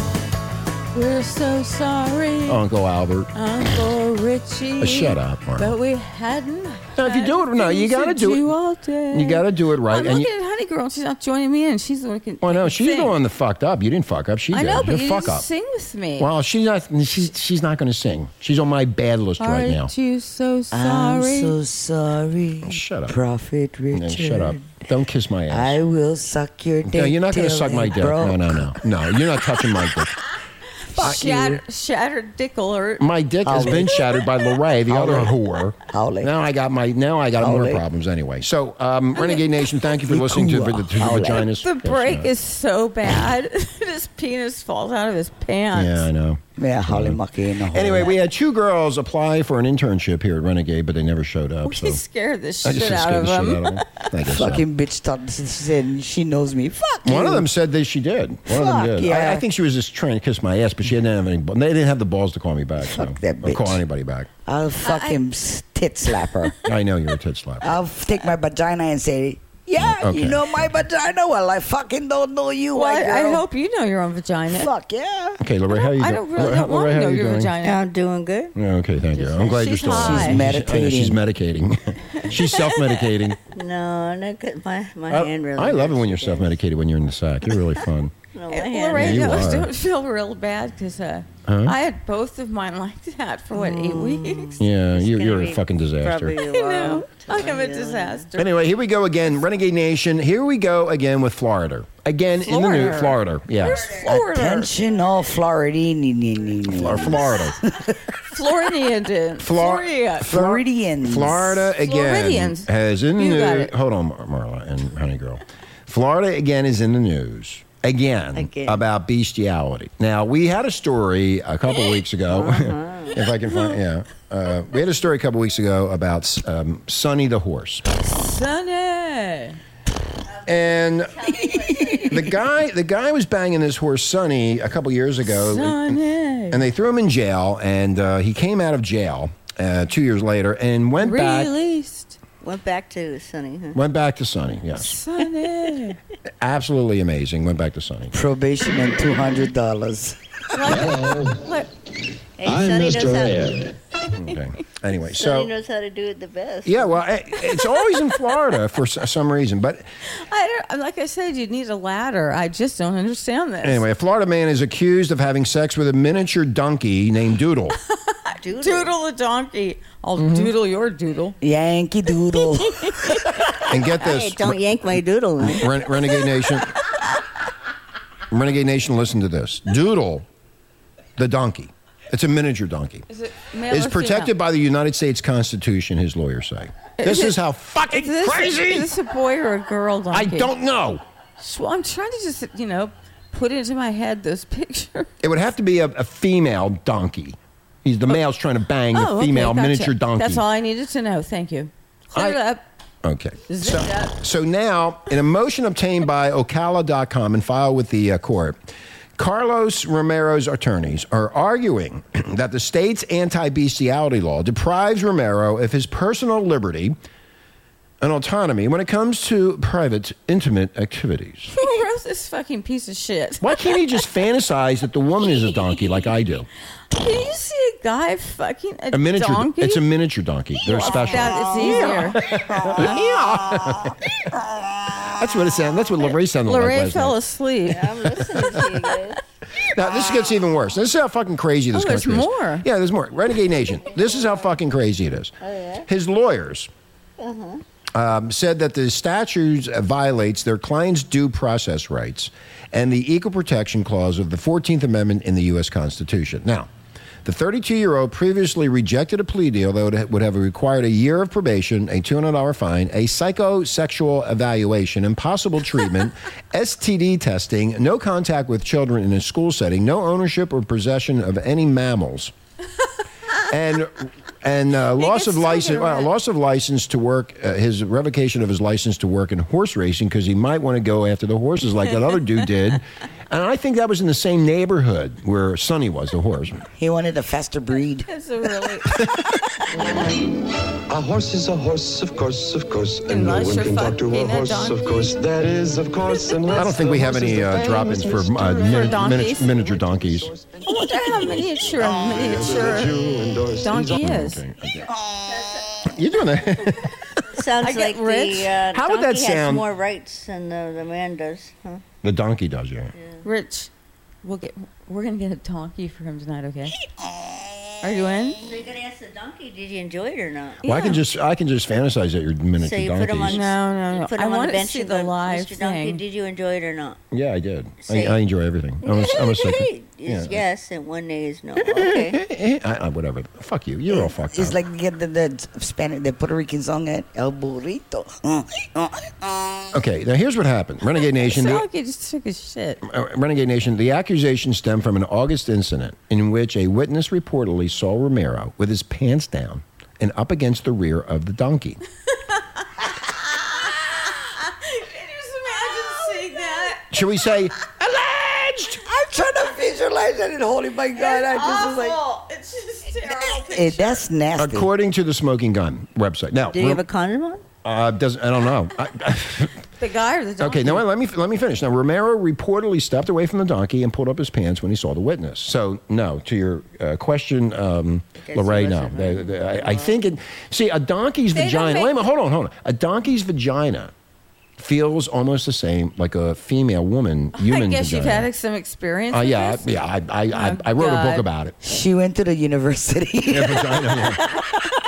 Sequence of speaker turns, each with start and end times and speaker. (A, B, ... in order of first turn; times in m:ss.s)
0:00.9-0:02.6 A
0:02.5-0:03.3 B
0:03.3-0:13.2 A
0:04.8-0:05.8 B
0:07.0-0:08.5 B
0:09.1-0:10.3 B
0:12.4-0:15.5 B
0:14.5-0:16.3 A
0:16.2-0:19.9 B
0:19.4-0:21.6 A
0:20.7-0:24.8 C
0:22.6-0:23.2 B
0:23.9-0:25.8 B
0:25.5-0:28.8 C
0:26.8-0:30.2 B
0:31.0-0:33.1 A
0:31.0-0:31.6 C
0:31.0-0:31.3 B
0:33.0-0:42.3 B
0:33.4-0:34.2 C
0:34.9-0:35.3 C
0:35.9-0:36.3 C
0:37.4-0:37.8 C
0:40.0-0:41.5 C
0:41.5-0:46.1 A
0:45.7-0:47.2 B
0:46.6-0:48.2 C
0:47.7-0:52.0 B
0:51.6-0:54.1 A
0:52.6-0:54.6 B
0:54.2-0:57.5 C
0:57.0-1:04.3 B
0:58.5-0:59.4 C
1:02.8-1:03.8 C
1:04.5-1:06.6 C
1:04.8-1:05.2 A
1:06.6-1:07.8 B
1:07.6-1:13.5 C
1:09.8-1:10.5 B
1:12.7-1:14.7 A
1:14.5-1:15.4 C
1:15.4-1:17.6 B
1:15.7-1:17.8 A
1:17.6-1:18.6 D
1:18.6-1:23.4 B
1:19.2-1:19.6 D
1:19.4-1:20.4 A
1:19.9-1:21.2 C
1:22.2-1:22.4 A
1:23.5-1:26.6 D
1:25.1-1:28.1 B
1:28.3-1:29.6 D
1:28.5-1:34.6 A
1:28.9-1:29.7 B
1:31.5-1:31.8 B
1:33.5-1:38.3 D
1:34.6-1:36.4 B
1:36.4-1:38.6 A
1:38.4-1:43.9 B
1:42.4-1:44.7 A
1:44.0-1:48.0 C
1:46.6-1:47.6 B
1:48.3-1:50.3 A
1:49.4-2:07.8 B
1:50.3-1:51.7 C
1:51.8-1:53.7 A
1:58.4-1:58.8 D
2:02.3-2:03.3 D
2:07.9-2:09.6 A
2:10.5-2:12.4 D
2:10.5-2:16.0 B
2:15.2-2:16.6 A
2:16.5-2:21.5 B
2:21.0-2:22.2 A
2:22.4-2:23.8 D
2:23.8-2:25.0 B
2:24.8-2:26.0 A
2:26.4-2:28.1 B
2:28.1-2:30.7 C
2:30.5-2:31.7 A
2:30.7-2:31.4 E
2:32.4-2:33.6 D
2:32.4-2:33.8 E
2:34.1-2:35.5 B
2:34.9-2:37.1 D
2:36.6-2:39.8 B
2:40.2-2:43.8 A
2:43.6-2:47.8 B
2:48.1-2:51.4 A
2:48.4-2:48.9 D
2:50.2-2:50.5 B
2:51.4-2:53.6 C
2:53.7-2:54.6 B
2:54.0-2:55.9 D
2:55.4-2:56.8 B
2:58.3-3:00.3 B
3:01.2-3:03.0 B
3:03.1-3:04.3 A
3:03.7-3:08.9 B
3:07.0-3:10.5 A
3:10.1-3:11.0 B
3:11.4-3:15.1 A
3:15.2-3:20.4 B
3:18.9-3:22.6 A
3:22.1-3:22.4 B
3:23.0-3:28.6 B
3:23.5-3:24.2 A
3:29.2-3:37.0 B
3:38.0-3:41.5 B
3:41.5-3:44.0 A
3:43.4-3:46.5 B
3:46.9-3:49.8 A
3:48.9-3:54.3 B
3:50.6-3:52.2 A
3:55.0-3:57.2 B
3:56.4-3:58.0 A
3:57.7-3:59.2 D
3:59.6-4:05.3 B
4:01.7-4:02.7 A
4:03.8-4:04.6 D
4:05.4-4:05.9 D
4:05.9-4:06.7 B
4:07.2-4:07.6 D
4:07.9-4:16.7 B
4:17.2-4:32.3 B
4:33.5-4:46.6 B
4:35.0-4:36.1 A
4:46.8-4:48.1 C
4:48.1-4:49.1 A
4:49.0-4:49.3 B
4:50.9-5:04.1 E
4:53.1-4:55.1 A
4:56.5-5:00.3 B
4:57.4-4:59.6 A
5:00.6-5:03.0 A
5:03.6-5:04.4 A
5:03.7-5:04.9 B
5:05.2-5:05.6 C
5:05.2-5:05.9 D
5:05.9-5:07.2 B
5:06.8-5:11.8 D
5:07.6-5:08.5 A
5:08.7-5:09.7 B
5:12.0-5:12.9 B
5:13.0-5:13.2 D
5:13.2-5:13.7 A
5:14.2-5:16.8 A
5:17.8-5:18.4 A
5:18.4-5:20.6 D
5:20.6-5:21.0 A
5:20.7-5:23.4 B
5:22.6-5:27.0 D
5:23.3-5:26.0 A
5:27.1-5:30.4 B
5:27.8-5:28.2 D
5:28.8-5:32.2 D
5:31.6-5:34.6 B
5:33.9-5:39.8 C
5:39.7-5:41.7 B
5:41.2-5:42.8 A
5:42.8-5:51.8 B
5:52.3-5:56.9 A
5:56.9-5:58.8 B
5:58.8-6:02.0 C
6:01.0-6:04.1 A
6:03.0-6:04.7 C
6:04.4-6:06.8 B
6:06.5-6:07.4 D
6:07.6-6:09.6 B
6:09.8-6:10.9 A
6:10.4-6:23.9 B
6:18.2-6:20.1 D
6:21.3-6:22.1 A
6:24.6-6:28.3 B
6:27.4-6:29.7 A
6:29.1-6:31.6 B
6:30.3-6:31.2 A
6:31.6-6:34.1 C
6:33.3-6:34.2 B
6:34.0-6:34.5 A